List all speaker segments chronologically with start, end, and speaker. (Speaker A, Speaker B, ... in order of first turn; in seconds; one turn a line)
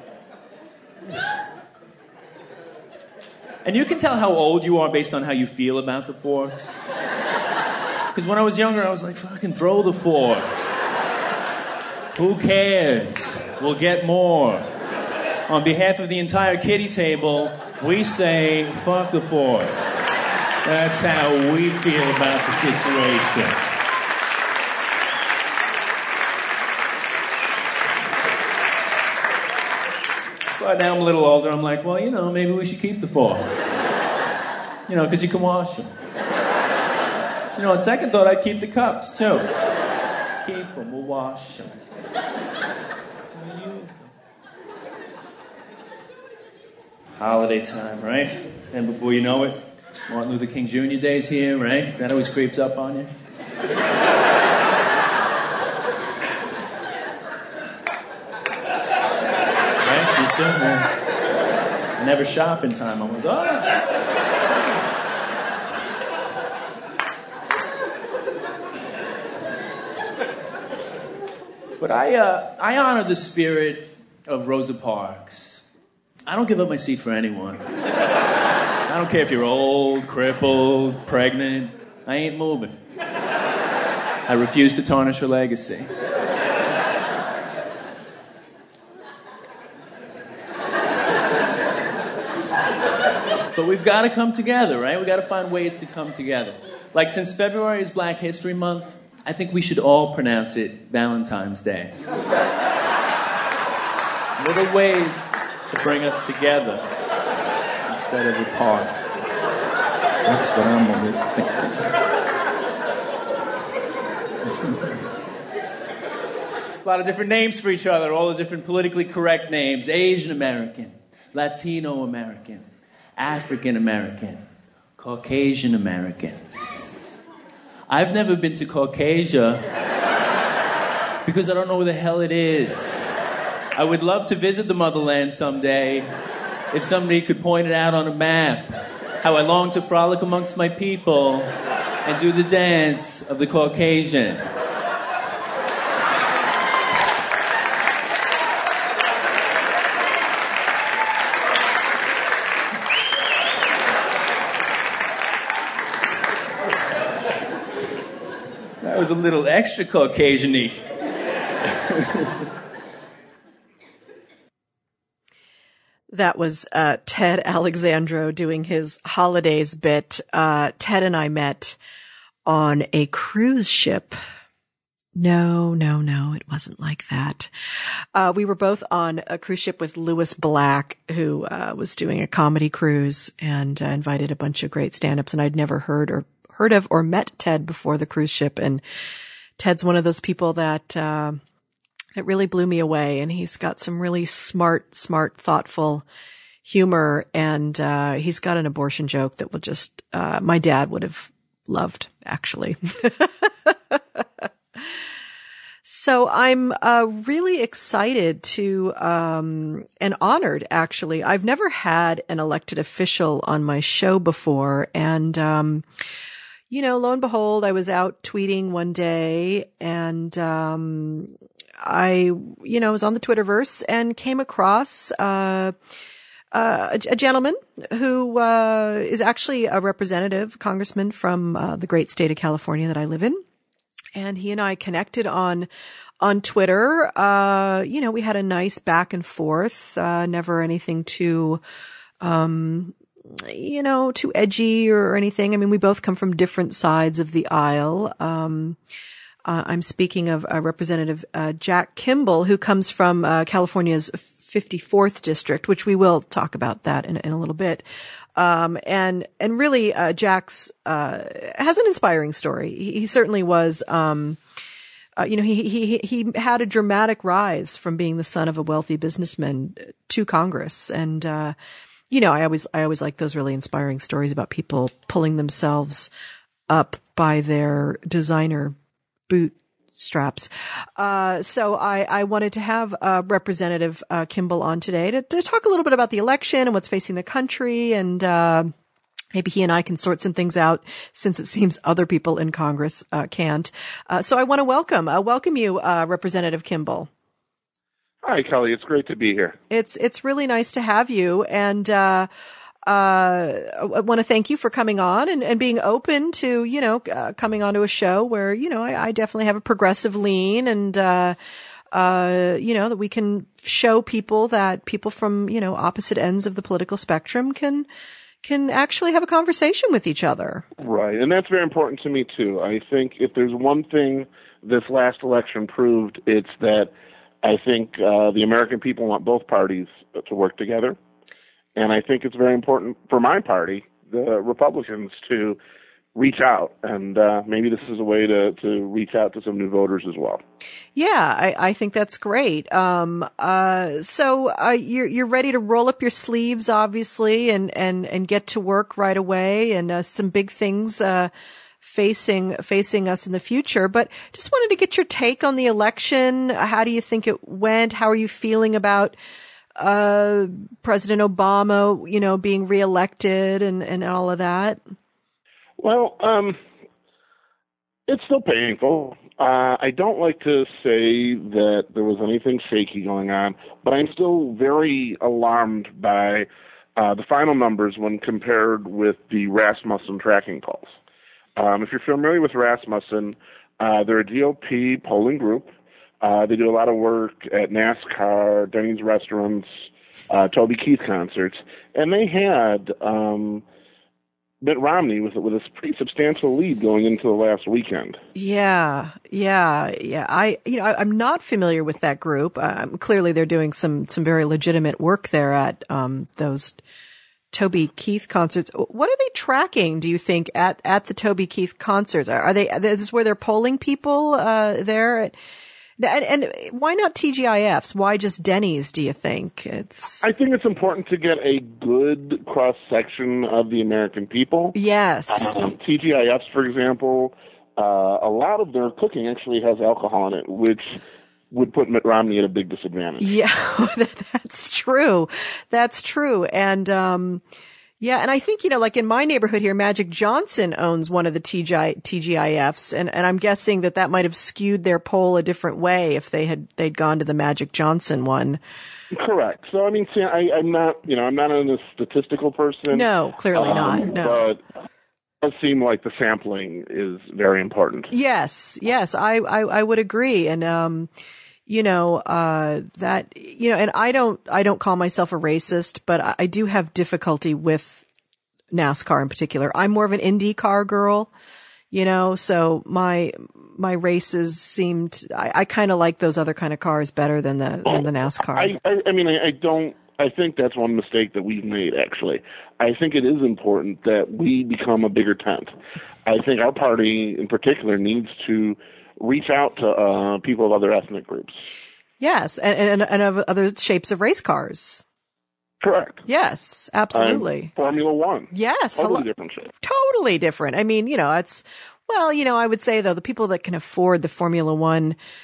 Speaker A: 3.6-6.8
Speaker A: 8.1-10.8
Speaker A: 12.2-14.7
Speaker A: 15.5-20.0
Speaker A: 20.6-23.6
Speaker A: 30.6-33.5
Speaker A: 34.9-35.9
Speaker A: 37.6-39.5
Speaker A: 40.4-41.8
Speaker A: 43.3-44.1
Speaker A: 47.2-53.2
Speaker A: 59.8-60.9
Speaker A: 62.0-63.8
Speaker A: 71.8-75.6
Speaker A: 76.3-77.7
Speaker A: 78.9-82.8
Speaker A: 84.3-85.9
Speaker A: 93.5-102.0
Speaker A: 104.4-107.0
Speaker A: 107.9-109.0
Speaker A: 110.3-111.9
Speaker A: 114.5-115.0
Speaker A: 116.8-122.7
Speaker A: 123.2-124.4
Speaker A: 125.0-126.4
Speaker A: 127.9-129.7
Speaker A: 131.2-133.0
Speaker A: 133.8-136.1
Speaker A: 136.7-141.6
Speaker A: 142.1-144.5
Speaker A: 158.8-160.8
Speaker A: 161.9-162.3
Speaker B: 166.1-171.8
Speaker B: 172.5-174.2
Speaker B: 175.2-177.5
Speaker B: 178.1-188.8
Speaker B: 189.6-191.4
Speaker B: 192.2-196.1
Speaker B: 196.6-204.8
Speaker B: 205.8-215.9
Speaker B: 216.7-225.8
Speaker B: 226.5-233.4
Speaker B: 234.2-235.7
Speaker B: 236.2-241.6
Speaker B: 242.2-248.8
Speaker B: 249.5-257.9
Speaker B: 258.4-264.4
Speaker B: 265.2-271.6
Speaker B: 272.1-276.1
Speaker B: 276.7-278.8
Speaker B: 279.3-288.7
Speaker B: 289.3-297.1
Speaker C: 298.2-299.6
Speaker B: 299.7-302.3
Speaker B: 302.9-311.4
Speaker B: 311.9-317.9
Speaker B: 318.4-320.6
Speaker C: 320.8-326.9
Speaker C: 327.4-331.0
Speaker C: 331.8-335.6
Speaker C: 336.1-340.4
Speaker B: 340.9-359.2
Speaker B: 359.8-364.8
Speaker C: 365.8-366.6
Speaker C: 368.1-380.9
Speaker C: 381.6-385.7
Speaker C: 386.2-393.6
Speaker C: 394.6-398.2
Speaker B: 398.4-406.8
Speaker B: 407.5-415.4
Speaker B: 416.0-420.3
Speaker C: 420.2-424.8
Speaker B: 424.8-425.6
Speaker C: 425.3-433.3
Speaker B: 433.2-437.4
Speaker B: 438.0-448.6
Speaker C: 449.1-454.6
Speaker B: 452.9-454.4
Speaker C: 455.4-458.1
Speaker B: 458.1-461.1
Speaker B: 461.7-468.1
Speaker B: 468.7-471.3
Speaker B: 471.9-478.8
Speaker C: 477.9-485.7
Speaker C: 486.3-491.6
Speaker B: 492.2-495.0
Speaker C: 495.8-496.2
Speaker B: 496.3-497.7
Speaker C: 497.1-499.7
Speaker B: 498.5-499.3
Speaker B: 499.8-505.2